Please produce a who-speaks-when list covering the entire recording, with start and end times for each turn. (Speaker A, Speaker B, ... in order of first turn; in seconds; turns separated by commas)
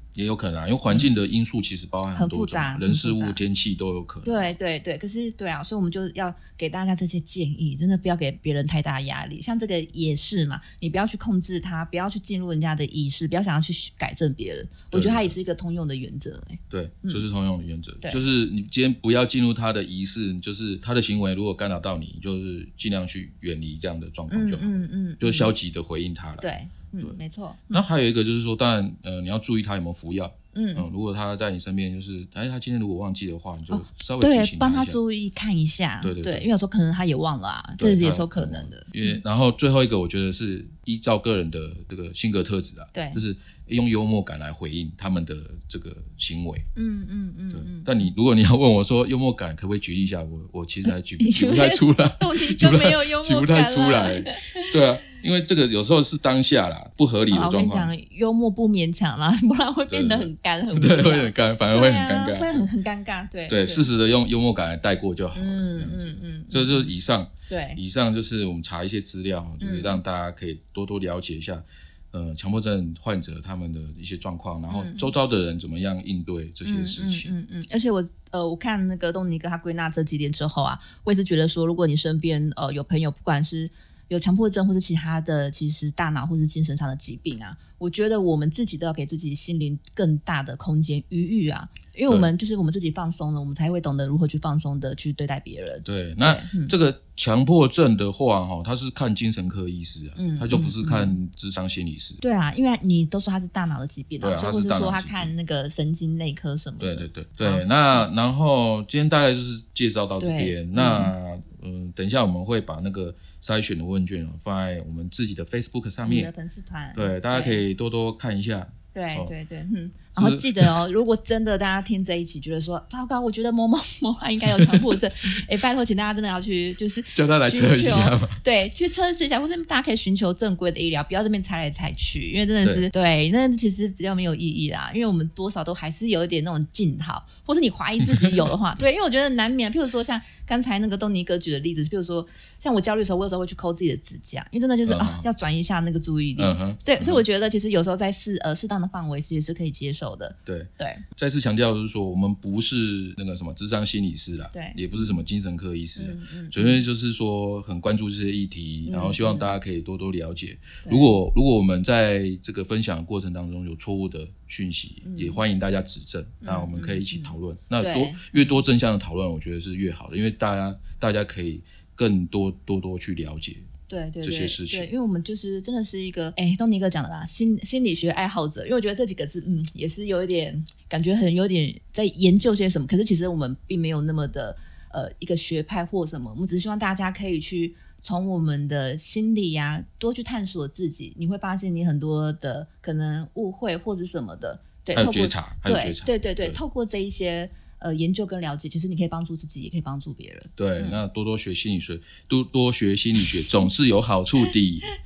Speaker A: 0.1-4.6, Speaker B: 2.1-3.4, Speaker B: 4.2-17.2, Speaker A: 14.9-15.3, Speaker A: 16.7-27.1, Speaker B: 24.3-25.5, Speaker B: 26.4-27.8, Speaker A: 27.7-35.0, Speaker B: 30.5-30.9, Speaker B: 33.7-39.2, Speaker A: 36.0-36.5, Speaker A: 37.8-46.7, Speaker B: 42.9-43.2, Speaker B: 46.8-48.1, Speaker A: 47.5-57.9, Speaker B: 50.9-54.7, Speaker B: 57.3-63.9, Speaker A: 59.9-62.7, Speaker A: 63.5-77.3, Speaker B: 65.3-66.9, Speaker B: 67.5-67.8, Speaker B: 69.6-70.0, Speaker B: 74.7-75.1, Speaker B: 76.7-96.7, Speaker A: 95.8-102.2, Speaker B: 100.2-101.2, Speaker B: 102.2-108.0, Speaker A: 104.2-105.3, Speaker A: 106.8-116.3, Speaker B: 110.2-111.1, Speaker B: 116.0-117.6, Speaker A: 117.0-119.3, Speaker B: 118.9-151.1, Speaker A: 120.2-120.8, Speaker A: 124.4-125.0, Speaker A: 127.1-128.4, Speaker A: 132.6-132.9, Speaker A: 138.1-138.4, Speaker A: 144.9-145.2, Speaker A: 146.4-147.2, Speaker A: 150.5-173.7, Speaker B: 154.5-155.2, Speaker B: 156.0-156.8, Speaker B: 158.8-159.5, Speaker B: 160.8-161.1, Speaker B: 165.0-165.4, Speaker B: 166.4-168.6, Speaker B: 173.9-201.0, Speaker A: 174.2-174.9, Speaker A: 194.9-196.6, Speaker A: 200.6-204.9